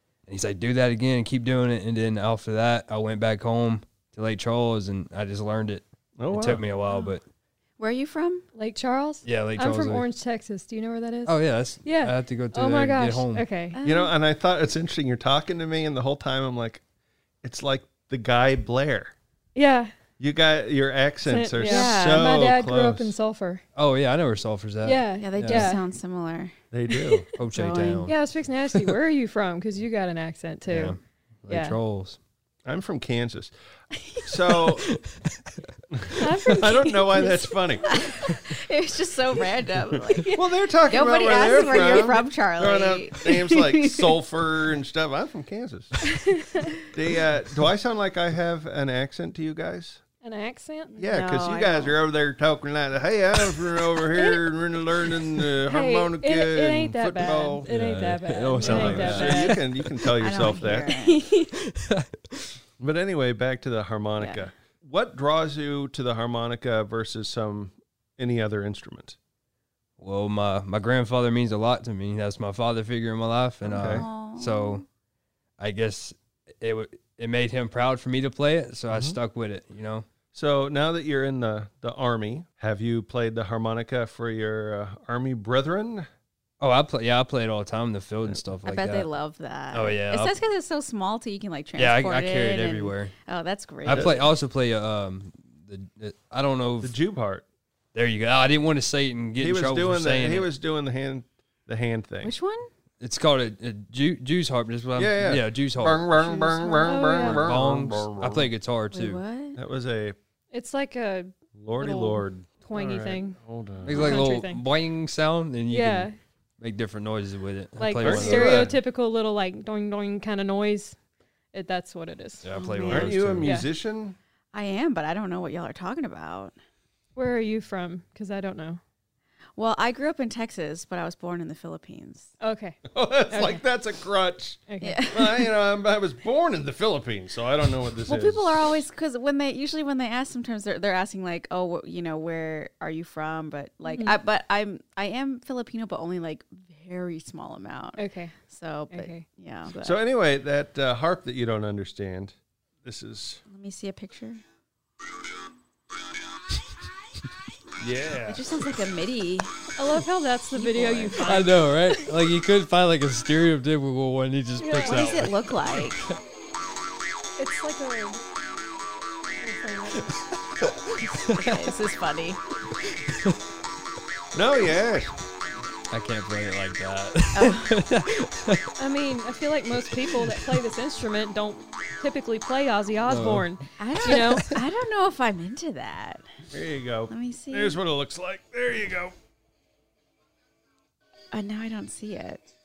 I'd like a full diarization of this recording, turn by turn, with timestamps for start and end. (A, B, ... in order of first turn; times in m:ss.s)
0:00.3-0:07.2 A
0:06.2-0:06.6 B
0:06.8-0:07.2 C
0:07.8-0:08.4 C
0:08.5-0:13.8 D
0:09.2-0:10.1 A
0:11.2-0:13.5 A
0:13.7-0:14.1 C
0:13.8-0:16.8 B
0:17.4-0:19.1 B
0:19.5-0:19.9 D
0:20.2-0:23.1 B
0:21.2-0:23.6 D
0:21.6-0:22.3 C
0:23.7-0:25.7 A
0:24.8-0:25.8 D
0:25.1-0:26.6 C
0:26.7-0:27.3 B
0:27.4-0:28.1 A
0:27.4-0:28.1 C
0:28.0-0:31.8 D
0:30.7-0:32.2 A
0:32.6-0:33.5 B
0:34.2-0:34.9 B
0:35.9-0:37.9 B
0:36.2-0:37.3 D
0:37.8-0:44.2 C
0:40.3-0:46.0 B
0:46.1-0:46.6 D
0:46.9-0:50.0 B
0:50.2-0:50.9 D
0:50.9-0:52.0 C
0:51.0-0:57.7 B
0:55.6-0:59.7 D
0:57.6-0:59.9 A
0:58.5-1:00.9 B
1:00.2-1:01.3 C
1:00.8-1:01.4 D
1:01.6-1:02.4 A
1:02.8-1:09.2 B
1:04.2-1:04.5 C
1:10.0-1:14.8 A
1:13.6-1:14.1 B
1:13.7-1:14.8 C
1:15.6-1:20.0 A
1:18.9-1:19.2 B
1:20.3-1:26.1 B
1:26.6-1:29.1 A
1:28.6-1:34.3 C
1:29.7-1:30.3 A
1:31.8-1:33.1 A
1:33.8-1:36.9 A
1:33.9-1:34.2 B
1:36.8-1:37.4 B
1:37.9-1:40.5 A
1:39.4-1:42.3 B
1:42.2-1:42.7 C
1:43.0-1:46.0 A
1:44.9-1:48.5 B
1:46.1-1:46.7 C
1:46.6-1:47.5 D
1:47.2-1:49.2 A
1:48.9-1:49.6 C
1:49.5-1:50.2 B
1:50.5-1:53.4 D
1:51.5-1:54.2 B
1:53.8-1:58.7 A
1:53.9-1:54.6 D
1:53.9-1:54.2 C
1:55.7-1:56.2 D
1:57.8-2:01.0 D
1:58.0-1:58.8 B
2:01.5-2:03.7 D
2:02.4-2:03.6 A
2:02.5-2:03.2 C
2:02.8-2:04.2 B
2:04.5-2:06.6 C
2:07.1-2:08.8 D
2:09.6-2:12.3 C
2:12.4-2:12.8 D
2:12.9-2:18.6 B
2:13.3-2:13.6 D
2:14.7-2:15.0 D
2:14.8-2:15.5 C
2:18.0-2:30.0 C
2:23.8-2:24.2 D
2:28.0-2:28.4 D
2:28.9-2:29.3 D
2:29.8-2:33.4 B
2:33.5-2:34.4 C
2:37.8-2:38.4 B
2:38.2-2:39.5 C
2:39.8-2:41.5 D
2:40.5-2:41.9 C
2:41.2-2:45.8 A
2:44.6-2:45.2 D
2:44.8-2:46.0 C
2:47.4-2:48.2 D
2:49.4-2:50.1 D
2:51.2-2:51.5 A
2:51.3-2:52.4 C
2:54.3-2:55.1 B
2:55.9-2:58.7 A
2:57.3-2:57.8 C
2:58.8-3:04.5 D
2:59.8-3:00.4 A
3:03.0-3:04.6 A
3:03.8-3:06.2 C
3:06.5-3:09.1 B
3:07.1-3:07.8 C
3:11.3-3:12.5 C